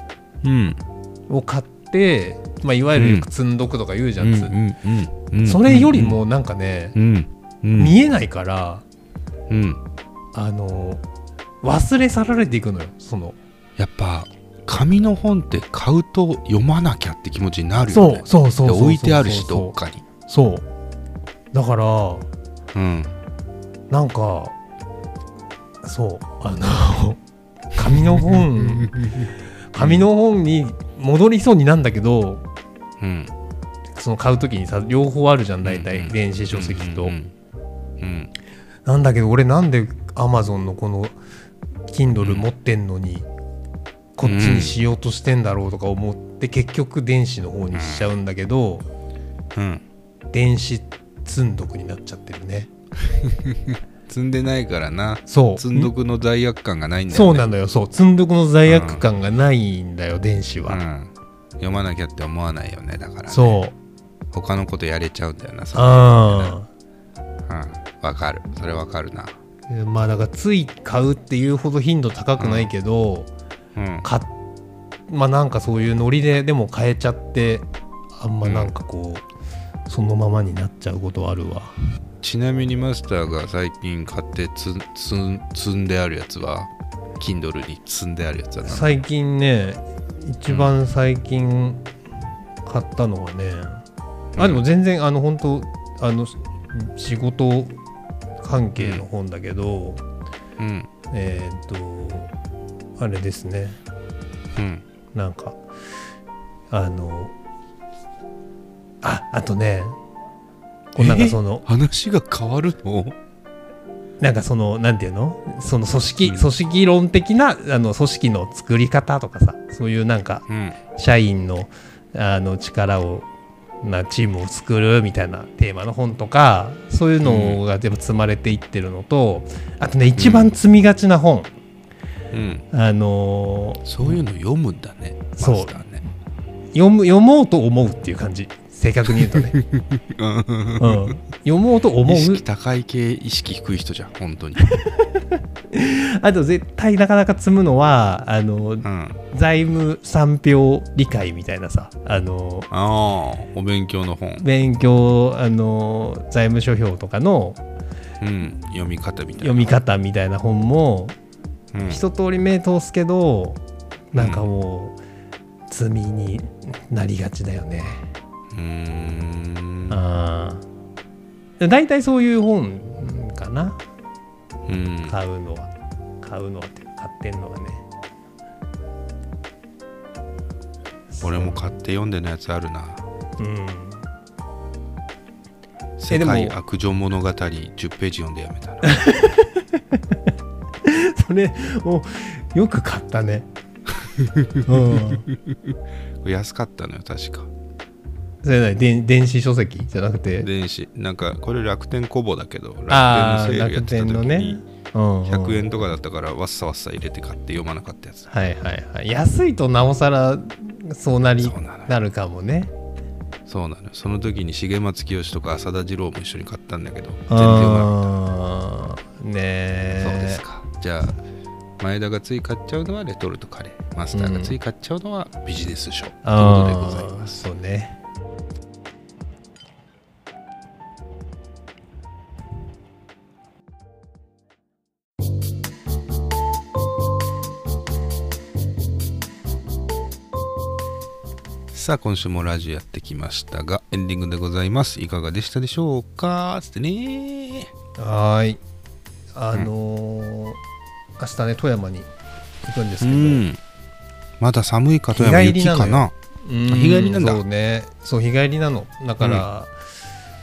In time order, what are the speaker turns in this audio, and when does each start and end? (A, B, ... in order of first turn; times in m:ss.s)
0:00.4-0:00.8 A
0:01.3-0:04.5 B
0:03.0-0:03.3 A
0:04.2-0:06.2 A
0:05.4-0:06.9 B
0:06.9-0:07.9 A
0:07.8-0:08.8 B
0:09.5-0:09.8 A
0:10.3-0:11.0 B
0:11.6-0:13.4 B
0:13.8-0:20.0 A
0:17.9-0:19.7 B
0:20.3-0:20.6 B
0:21.5-0:22.3 B
0:22.7-0:23.1 A
0:23.9-0:24.5 B
0:25.8-0:27.2 B
0:27.7-0:28.9 B
0:27.9-0:30.1 A
0:29.7-0:32.4 B
0:33.0-0:33.3 A
0:33.9-0:37.1 B
0:35.6-0:37.3 A
0:38.0-0:38.3 A
0:38.8-0:41.2 B
0:41.9-0:43.3 B
0:42.2-0:42.5 A
0:44.2-0:48.9 B
0:44.2-0:44.8 A
0:47.7-0:48.1 A
0:49.5-0:49.8 A
0:50.3-0:52.7 B
0:53.0-0:57.5 A
0:55.3-0:55.9 B
0:57.1-1:00.8 B
0:58.6-0:59.0 A
1:00.6-1:03.6 A
1:03.3-1:03.8 B
1:04.3-1:06.6 A
1:05.7-1:06.7 B
1:07.5-1:09.3 A
1:09.7-1:13.3 B
1:12.4-1:12.7 A
1:13.8-1:14.0 A
1:14.0-1:14.3 B
1:15.1-1:19.2 B
1:18.4-1:18.7 A
1:19.9-1:21.8 B
1:22.2-1:28.9 A
1:28.6-1:31.9 B
1:32.6-1:33.8 B
1:34.4-1:34.6 A
1:34.4-1:37.8 B
1:38.4-1:40.0 B
1:38.8-1:39.0 A
1:40.6-1:40.9 A
1:41.1-1:42.3 B
1:43.0-1:43.8 B
1:44.6-1:44.8 A
1:45.1-1:45.6 B
1:46.7-1:47.3 B
1:49.0-1:50.0 B
1:50.9-1:51.6 B
1:51.0-1:53.2 A
1:54.2-2:03.3 B
1:56.2-1:56.5 A
2:00.5-2:00.8 A
2:03.8-2:11.5 B
2:07.2-2:07.6 A
2:10.1-2:10.6 A
2:12.3-2:12.6 A
2:12.7-2:14.2 B
2:13.8-2:16.0 A
2:15.4-2:15.8 B
2:16.7-2:19.5 B
2:19.2-2:21.2 A
2:20.8-2:22.4 B
2:22.0-2:24.6 A
2:24.6-2:32.7 B
2:28.8-2:29.2 A
2:32.7-2:34.4 A
2:34.4-2:37.6 B
2:38.2-2:39.8 A
2:39.4-2:41.2 B
2:41.7-2:42.0 A
2:41.8-2:43.6 B
2:44.1-2:45.0 B
2:44.1-2:44.4 A
2:45.7-2:48.1 B
2:48.5-2:50.0 A
2:49.9-2:50.6 B
2:51.6-2:53.8 B
2:54.7-2:55.2 A
2:55.1-2:57.8 B
3:01.1-3:01.7 B
3:01.2-3:03.0 A
3:03.4-3:04.0 B
3:06.0-3:09.0 A
3:06.1-3:06.6 B
3:08.8-3:10.2 B
3:10.8-3:13.5 B
3:14.0-3:17.5 A
3:14.7-3:15.2 B
3:18.4-3:20.5 B
3:20.4-3:24.6 A
3:22.9-3:25.6 B
3:25.2-3:28.3 A
3:28.3-3:32.7 B
3:31.4-3:31.9 A
3:33.5-3:38.0 A
3:37.3-3:40.4 B
3:39.9-3:41.2 A
3:41.8-3:47.4 A
3:44.1-3:44.5 B
3:46.2-3:48.0 B
4:01.7-4:07.7 A
4:08.0-4:08.6 B
4:09.3-4:10.6 B
4:11.2-4:12.1 B
4:12.6-4:13.4 B
4:13.0-4:13.6 A
4:14.4-4:16.1 A
4:15.1-4:19.7 B
4:16.7-4:17.4 A
4:19.2-4:19.5 A